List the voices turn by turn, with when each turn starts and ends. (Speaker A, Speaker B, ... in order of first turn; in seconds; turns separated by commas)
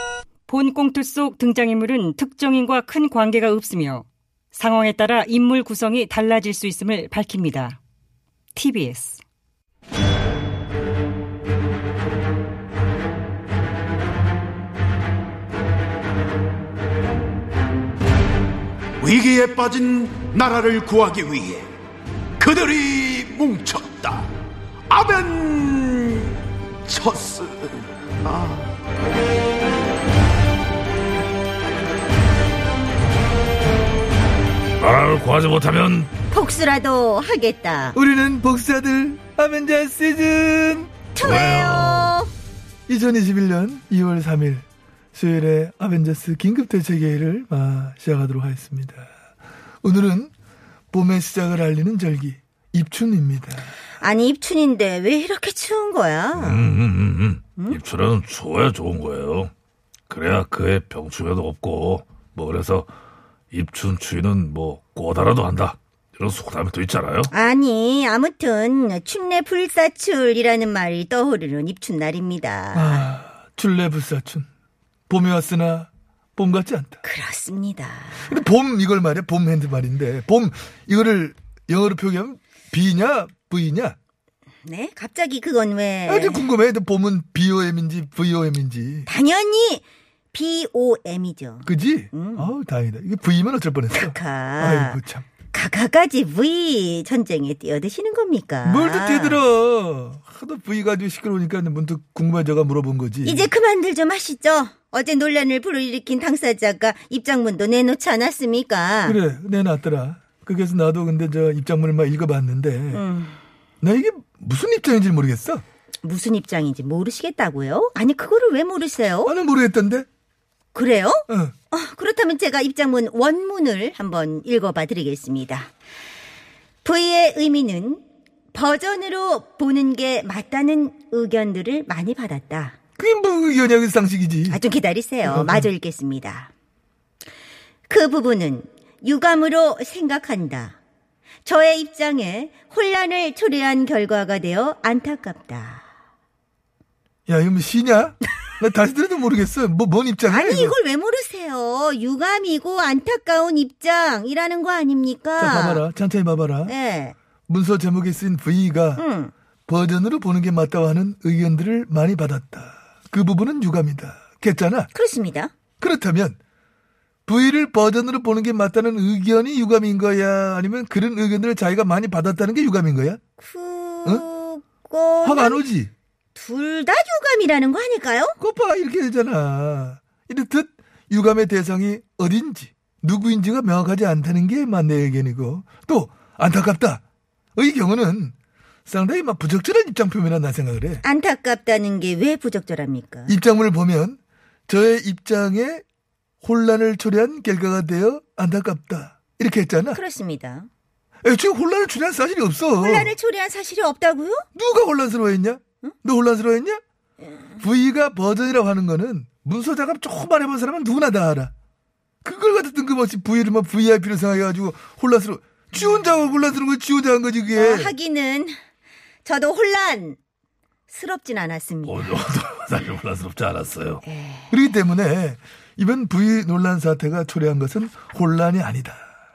Speaker A: 0.5-7.8, Speaker A: 8.5-9.2, Speaker B: 19.0-21.7, Speaker B: 22.4-24.3, Speaker B: 24.9-28.7, Speaker C: 34.8-36.1, Speaker D: 36.3-38.0, Speaker E: 37.9-40.9, Speaker D: 41.1-42.3, Speaker C: 41.2-42.1, Speaker E: 42.9-49.1, Speaker E: 49.8-50.3, Speaker E: 50.9-53.7, Speaker D: 54.0-56.7, Speaker C: 56.3-59.5, Speaker C: 60.1-62.9, Speaker C: 63.5-67.3, Speaker D: 67.3-73.1, Speaker E: 72.7-74.5, Speaker E: 75.1-77.0, Speaker D: 77.0-78.4, Speaker E: 78.2-84.0, Speaker D: 84.7-86.5, Speaker E: 86.1-89.1, Speaker D: 89.0-92.5, Speaker E: 91.6-95.3, Speaker D: 93.9-95.0, Speaker D: 95.5-99.4, Speaker E: 98.6-103.5, Speaker D: 103.2-109.2, Speaker E: 109.0-113.0, Speaker D: 112.9-113.4, Speaker E: 113.8-115.6, Speaker D: 116.0-119.3, Speaker E: 119.2-120.1, Speaker D: 120.7-125.7, Speaker E: 121.3-121.5, Speaker D: 126.8-132.8, Speaker E: 133.0-134.6, Speaker D: 134.5-136.5, Speaker E: 135.2-135.7, Speaker D: 137.9-140.8, Speaker D: 141.4-145.8, Speaker E: 147.3-150.8, Speaker D: 150.2-155.8, Speaker E: 155.4-156.7, Speaker D: 156.6-157.1, Speaker E: 157.5-159.0, Speaker D: 159.0-159.3, Speaker E: 159.7-164.9, Speaker D: 164.9-165.5, Speaker E: 165.8-166.4, Speaker E: 167.3-173.2, Speaker D: 173.4-175.6, Speaker E: 175.2-175.9, Speaker D: 176.3-178.4, Speaker E: 178.4-187.0, Speaker E: 187.6-188.3, Speaker E: 188.9-191.0, Speaker D: 191.0-193.3, Speaker E: 193.3-195.8, Speaker E: 196.4-200.0, Speaker D: 199.9-200.7, Speaker E: 201.2-203.1, Speaker D: 202.8-204.4, Speaker E: 204.5-206.8, Speaker E: 207.6-211.5, Speaker E: 212.2-217.9, Speaker D: 217.5-218.5, Speaker D: 219.2-220.2, Speaker D: 220.9-222.1, Speaker C: 221.8-224.0, Speaker D: 224.0-224.5, Speaker E: 224.5-229.1